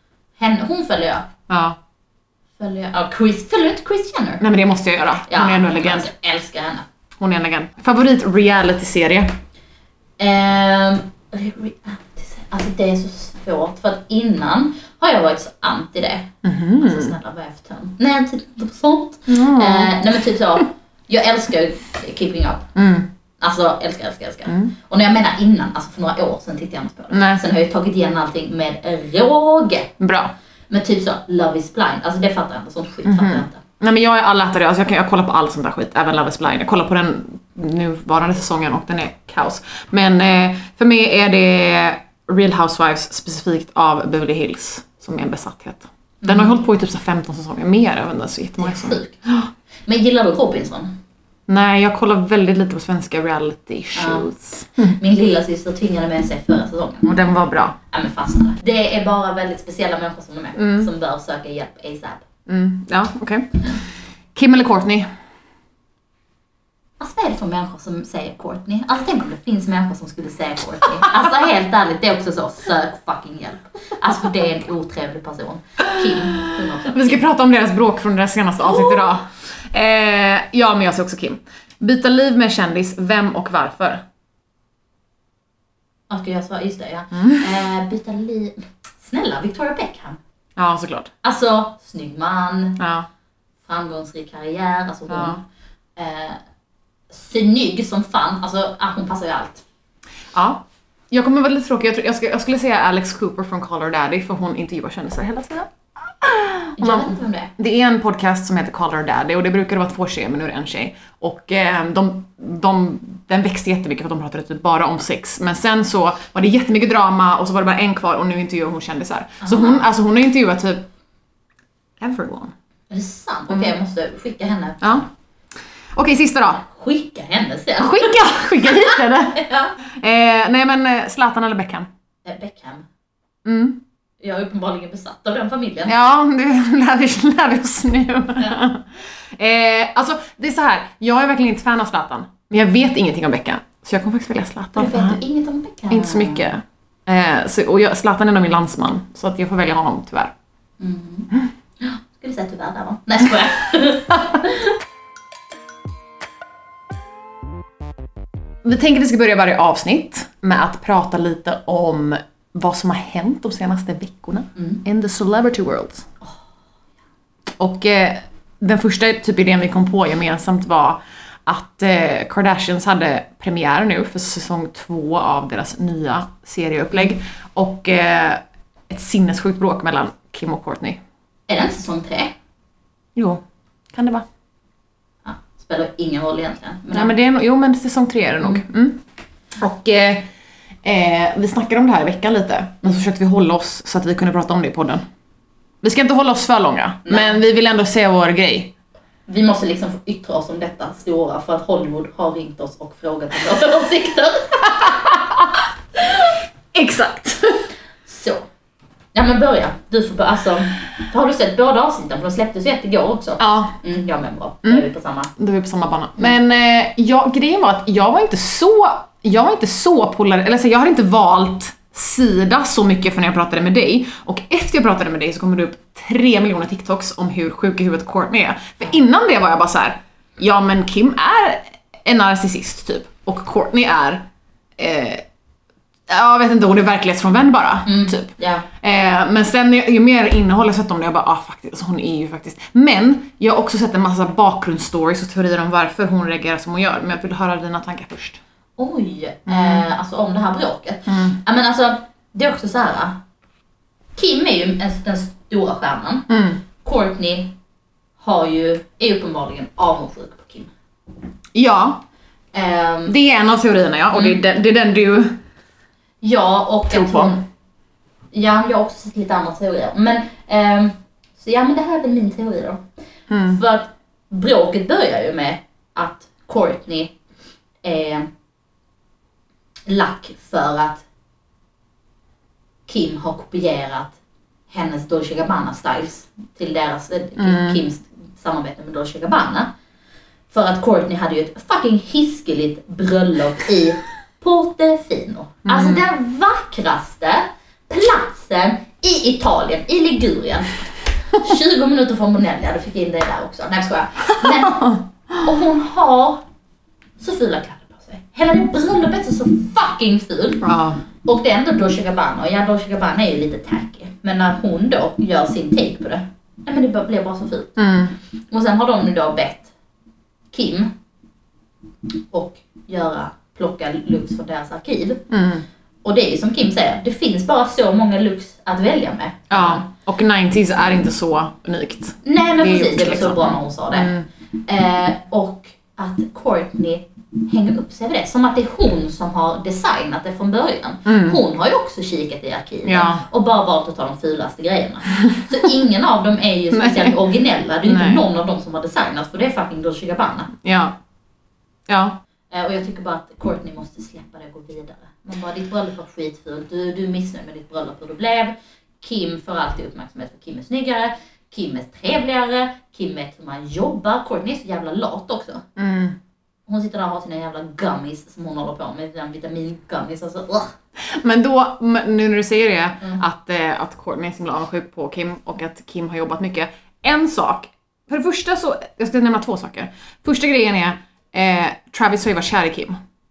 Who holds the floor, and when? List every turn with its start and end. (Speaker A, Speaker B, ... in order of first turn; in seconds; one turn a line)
Speaker A: 0.4-1.3
Speaker B: 1.5-1.8
Speaker A: 2.6-4.4
Speaker B: 4.4-6.1
Speaker A: 5.3-6.8
Speaker B: 7.2-9.3
Speaker A: 10.2-22.7
Speaker B: 16.4-17.1
Speaker B: 19.3-19.9
Speaker B: 22.7-23.1
Speaker A: 23.4-29.9
Speaker B: 27.1-27.4
Speaker B: 30.0-30.3
Speaker A: 30.7-33.6
Speaker B: 33.0-49.5
Speaker A: 46.2-46.6
Speaker A: 48.6-49.2
Speaker A: 49.9-51.0
Speaker B: 51.5-55.0
Speaker A: 53.9-54.3
Speaker A: 54.8-57.2
Speaker B: 57.0-57.8
Speaker A: 57.9-62.2
Speaker B: 60.6-60.9
Speaker B: 62.5-63.7
Speaker B: 64.3-65.1
Speaker A: 67.0-77.3
Speaker B: 76.0-84.0
Speaker A: 78.7-79.1
Speaker A: 86.1-90.2
Speaker B: 87.2-87.4
Speaker B: 90.6-91.1
Speaker A: 91.2-92.8
Speaker B: 92.8-93.1
Speaker A: 93.7-95.4
Speaker B: 95.1-95.4
Speaker A: 96.0-96.4
Speaker A: 97.1-99.6
Speaker B: 100.3-120.9
Speaker A: 106.8-107.5
Speaker A: 119.4-119.8
Speaker B: 122.0-122.5
Speaker A: 122.9-125.1
Speaker B: 125.9-126.6
Speaker A: 126.6-129.7
Speaker B: 127.8-131.9
Speaker A: 132.2-132.8
Speaker B: 133.4-133.8
Speaker A: 134.2-135.9
Speaker B: 135.9-145.2
Speaker A: 144.8-146.5
Speaker B: 145.9-150.3
Speaker A: 150.8-154.8
Speaker B: 158.6-166.1
Speaker A: 164.6-164.8
Speaker B: 167.6-181.0
Speaker A: 181.5-182.3
Speaker B: 183.2-183.4
Speaker B: 183.9-184.2
Speaker A: 185.2-187.1
Speaker B: 186.9-189.0
Speaker B: 189.6-190.3
Speaker B: 190.8-195.0
Speaker B: 195.8-198.7
Speaker A: 197.0-197.4
Speaker A: 199.3-204.9
Speaker B: 204.8-205.5
Speaker B: 206.7-207.7
Speaker A: 208.1-208.4
Speaker A: 209.1-215.3
Speaker B: 213.4-213.8
Speaker B: 214.6-235.2
Speaker B: 236.1-248.4
Speaker A: 237.8-238.7
Speaker A: 248.8-253.2
Speaker B: 249.5-249.8
Speaker B: 251.1-251.4
Speaker A: 254.2-256.3
Speaker B: 256.3-256.6
Speaker A: 256.8-257.5
Speaker A: 258.2-260.7
Speaker B: 261.5-262.0
Speaker A: 262.5-263.1
Speaker B: 263.1-265.4
Speaker A: 264.1-264.4
Speaker A: 266.2-267.4
Speaker B: 266.9-267.3
Speaker A: 268.3-272.8
Speaker B: 273.3-273.6
Speaker A: 273.4-277.1
Speaker A: 277.8-278.3
Speaker A: 279.9-281.0
Speaker A: 282.9-284.1
Speaker A: 284.7-289.7
Speaker B: 287.4-287.8
Speaker A: 290.5-300.8
Speaker B: 295.6-296.1
Speaker A: 301.4-306.4
Speaker B: 304.4-305.0
Speaker A: 307.2-310.6
Speaker B: 310.6-311.0
Speaker A: 311.2-317.8
Speaker B: 317.8-318.1
Speaker A: 318.5-319.7
Speaker A: 320.5-320.9
Speaker A: 322.3-325.2
Speaker B: 325.3-325.6
Speaker A: 326.0-329.9
Speaker B: 329.5-334.3
Speaker A: 332.2-334.1
Speaker A: 334.6-350.5
Speaker B: 341.1-341.4
Speaker B: 342.9-343.2
Speaker B: 346.7-347.2
Speaker B: 347.8-348.2
Speaker B: 350.6-350.9
Speaker B: 351.9-352.2
Speaker A: 352.5-365.6
Speaker B: 365.8-366.1
Speaker A: 366.7-370.7
Speaker B: 371.0-383.0